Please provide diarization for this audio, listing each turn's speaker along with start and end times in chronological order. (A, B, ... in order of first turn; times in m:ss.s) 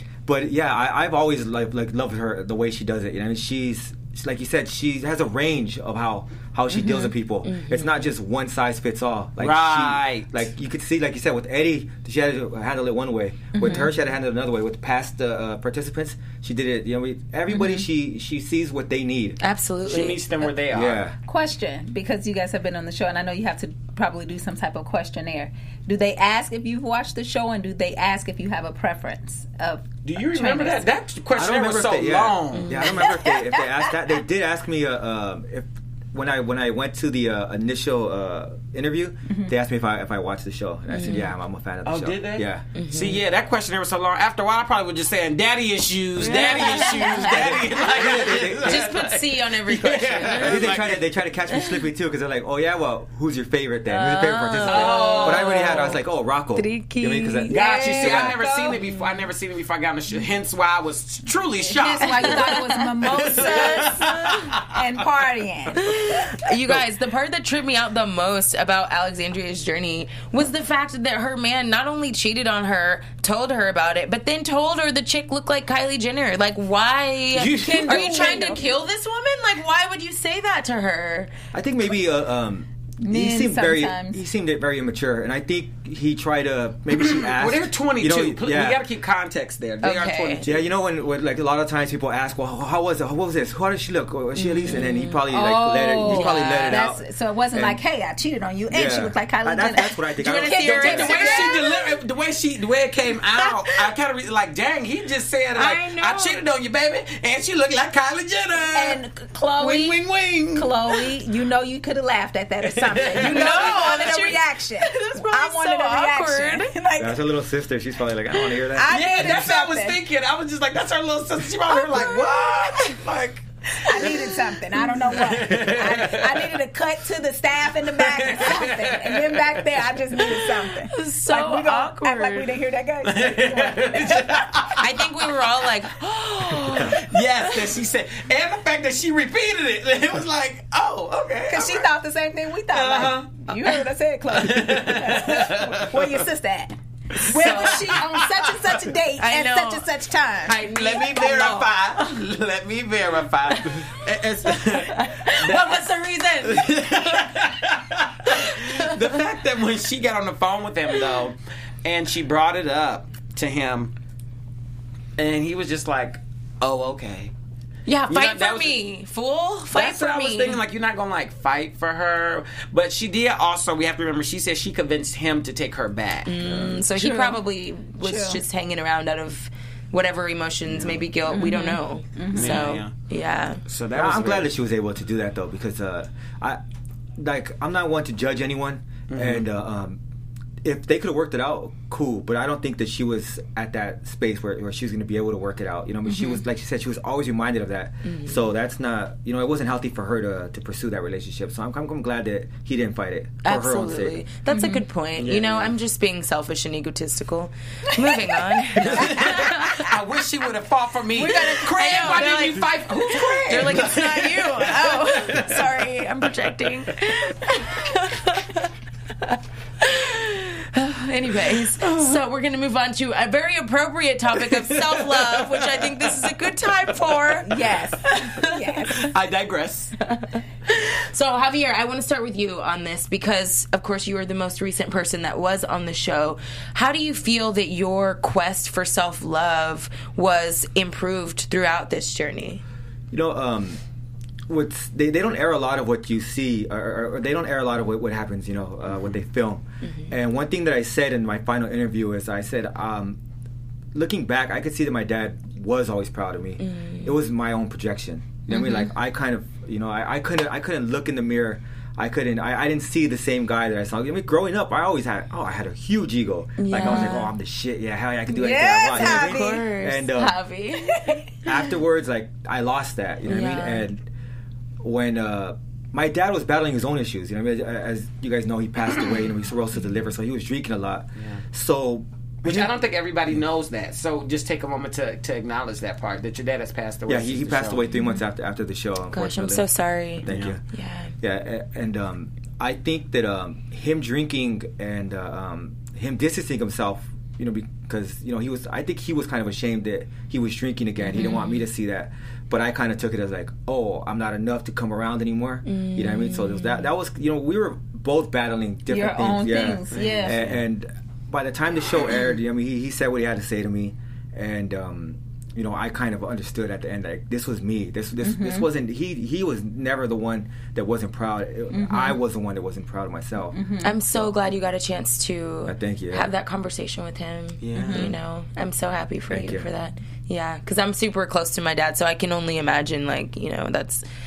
0:00.2-0:19.4 A
0:06.7-0:08.1 B
0:09.4-0:10.4 C
0:13.5-0:13.9 D
0:19.4-0:20.2 B
0:19.8-0:21.0 C
0:20.7-0:21.2 A
0:21.3-0:30.9 D
0:30.0-0:32.9 C
0:31.3-0:42.6 A
0:32.5-0:33.0 B
0:32.8-0:33.6 D
0:40.9-0:41.3 B
0:41.8-0:51.0 C
0:42.7-0:43.2 B
0:46.2-0:47.5 B
0:47.2-0:48.9 A
0:48.6-0:50.7 B
0:50.4-0:58.4 A
0:53.9-0:56.0 B
0:54.6-0:55.8 C
0:56.5-0:57.6 B
0:57.5-0:58.8 D
0:57.5-1:04.8 C
1:01.6-1:06.4 D
1:02.1-1:04.5 B
1:05.7-1:21.3 B
1:17.3-1:18.6 C
1:17.9-1:18.4 D
1:21.5-1:28.8 A
1:23.0-1:24.2 D
1:26.9-1:30.7 C
1:29.8-1:30.4 B
1:30.4-1:37.0 A
1:34.4-1:35.2 B
1:35.3-1:42.0 D
1:36.0-1:36.8 B
1:37.5-1:37.8 A
1:38.7-1:41.2 A
1:40.2-1:41.6 B
1:40.8-1:51.1 C
1:43.4-1:43.8 D
1:45.5-1:46.4 B
1:48.7-1:50.0 D
1:50.5-1:57.2 D
1:52.6-1:54.0 C
1:53.1-1:56.7 B
1:57.0-1:59.0 A
1:58.5-2:00.0 D
1:58.9-2:06.6 C
2:01.7-2:03.0 D
2:03.8-2:14.7 D
2:07.9-2:10.5 C
2:10.9-2:12.5 B
2:13.0-2:15.3 C
2:14.8-2:17.6 B
2:16.5-2:21.9 C
2:21.5-2:30.6 D
2:22.7-2:26.2 C
2:27.2-2:28.8 C
2:27.2-2:28.0 B
2:29.2-2:29.9 B
2:30.4-2:32.1 B
2:30.7-2:35.8 C
2:33.5-2:33.9 B
2:34.5-2:37.5 B
2:36.4-2:43.9 C
2:38.2-2:39.1 B
2:45.2-2:47.3 C
2:47.8-2:50.6 B
2:48.1-2:48.8 C
2:49.7-2:56.6 C
2:56.2-3:03.6 B
2:56.9-2:57.4 D
2:58.0-2:58.4 D
3:00.7-3:01.0 C
3:01.3-3:02.7 D
3:02.3-3:02.9 C
3:03.6-3:04.5 C
3:03.9-3:06.6 A
3:07.2-3:10.0 A
3:09.1-3:09.4 C
3:10.6-3:24.2 A
3:16.1-3:16.4 D
3:18.0-3:18.5 B
3:23.4-3:29.9 B
3:24.5-3:24.8 D
3:25.2-3:25.7 C
3:28.8-3:35.5 C
3:28.9-3:29.5 D
3:31.2-3:32.7 B
3:33.1-3:33.8 D
3:33.4-3:38.7 B
3:39.3-3:49.1 B
3:44.7-3:46.3 C
3:47.4-3:49.1 D
3:49.0-3:49.9 C
3:50.0-4:02.6 B
4:03.1-4:03.8 A
4:04.5-4:13.2 A
4:09.8-4:10.1 B
4:13.9-4:30.4 A
4:16.6-4:17.1 B
4:18.5-4:18.9 B
4:26.6-4:27.3 B
4:28.3-4:29.6 D
4:28.9-4:31.2 B
4:30.8-4:31.2 D
4:31.4-4:34.0 A
4:33.2-4:33.8 B
4:34.8-4:42.8 A
4:42.4-4:47.8 C
4:47.1-4:50.6 A
4:47.9-4:48.2 B
4:49.1-4:51.1 B
4:50.2-4:50.6 C
4:51.2-5:23.6 A
5:01.0-5:01.6 B
5:05.6-5:06.9 B
5:08.9-5:10.4 D
5:09.9-5:10.6 C
5:18.2-5:18.7 D
5:21.7-5:22.2 D
5:23.5-5:24.0 D
5:23.8-5:34.0 B
5:25.6-5:26.3 A
5:27.6-5:28.1 C
5:27.8-5:28.1 D
5:29.3-5:29.7 A